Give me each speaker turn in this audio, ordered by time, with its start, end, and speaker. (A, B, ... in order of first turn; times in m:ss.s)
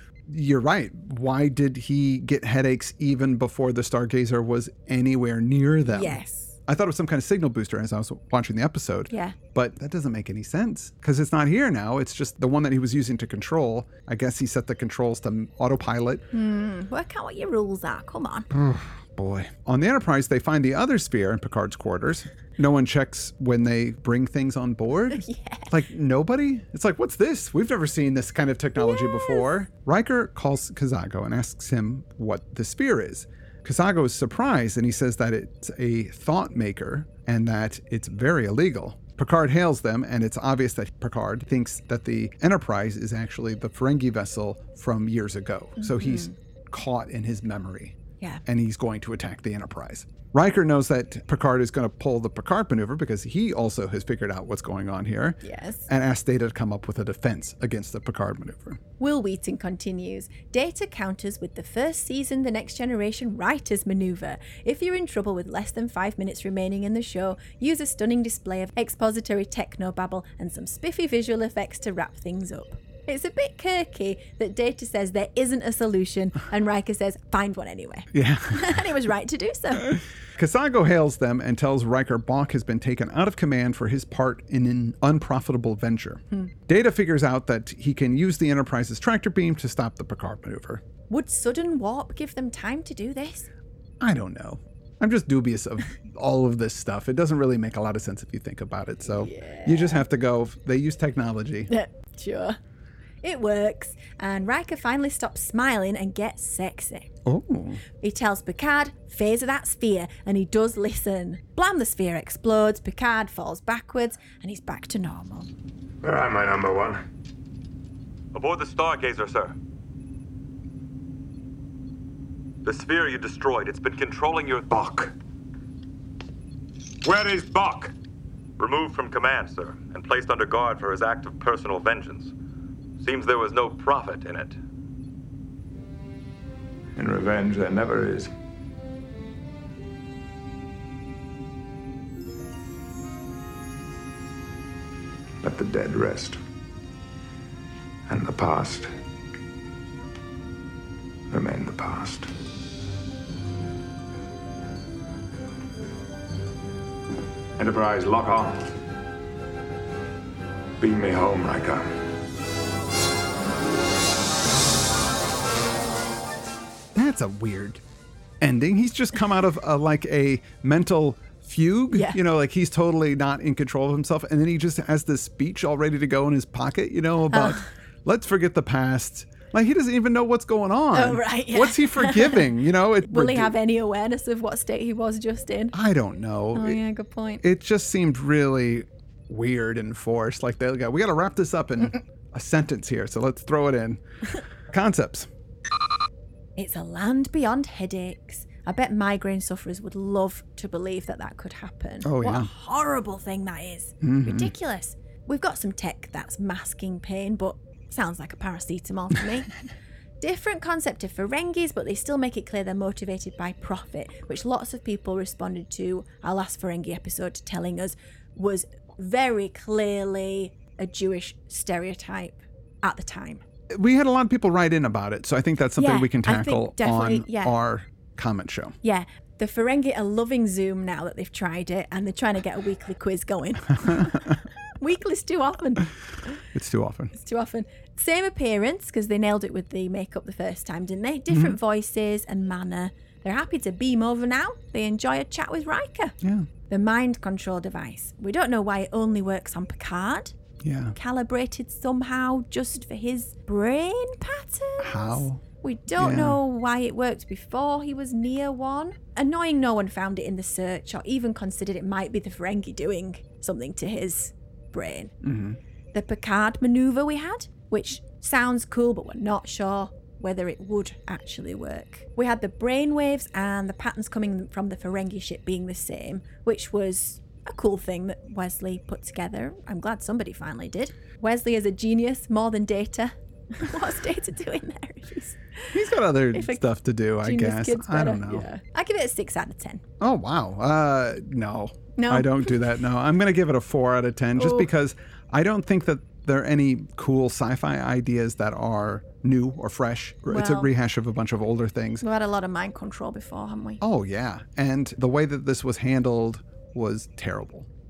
0:00.3-0:16.2 A
0:05.9-0:06.6 B
0:09.1-0:09.4 B
0:16.3-0:18.5 B
0:18.5-0:58.8 A
0:25.1-0:25.7 B
0:28.8-0:29.5 B
0:45.8-0:46.4 B
0:55.4-0:55.9 B
0:59.0-1:20.0 B
1:18.1-1:18.8 A
1:19.9-1:30.8 A
1:31.1-1:33.5 B
1:34.0-1:41.7 A
1:39.1-1:40.0 B
1:41.7-1:42.6 B
1:43.2-1:47.1 B
1:47.3-1:47.8 A
1:48.0-1:55.5 B
1:56.0-1:57.0 C
1:58.3-1:59.5 D
2:02.6-2:04.8 D
2:04.7-2:05.1 C
2:07.0-2:07.9 C
2:08.6-2:12.3 D
2:13.0-2:14.6 D
2:17.0-2:18.3 C
2:25.4-2:26.4 C
2:28.1-2:28.9 C
2:31.3-2:32.3 C
2:37.6-2:38.7 C
2:40.8-2:41.9 C
2:47.0-2:47.8 A
2:48.4-3:03.5 A
2:51.9-2:52.2 B
2:57.3-2:57.6 B
3:00.9-3:02.5 B
3:03.0-3:05.8 B
3:05.7-3:06.8 A
3:06.5-3:07.4 B
3:07.4-3:14.0 A
3:14.7-3:15.3 A
3:16.6-3:29.5 B
3:22.0-3:22.5 A
3:24.0-3:24.5 A
3:30.2-3:43.4 B
3:43.7-3:48.8 A
3:45.8-3:47.6 B
3:48.8-3:55.9 B
3:53.9-3:54.2 A
3:56.5-3:57.1 A
3:57.2-4:06.2 B
4:01.3-4:01.6 A
4:06.2-4:06.5 A
4:06.7-4:10.4 B
4:10.6-4:11.0 A
4:11.0-4:25.1 B
4:14.8-4:15.4 A
4:16.0-4:16.4 A
4:25.2-4:25.6 A
4:25.9-4:45.8 B
4:45.7-4:48.5 A
4:46.3-4:46.6 B
4:47.2-4:49.8 B
4:50.0-5:02.0 A
4:52.0-4:52.6 B
4:54.4-4:54.7 B
5:00.3-5:00.7 B
5:02.0-5:03.8 B
5:03.8-5:07.7 A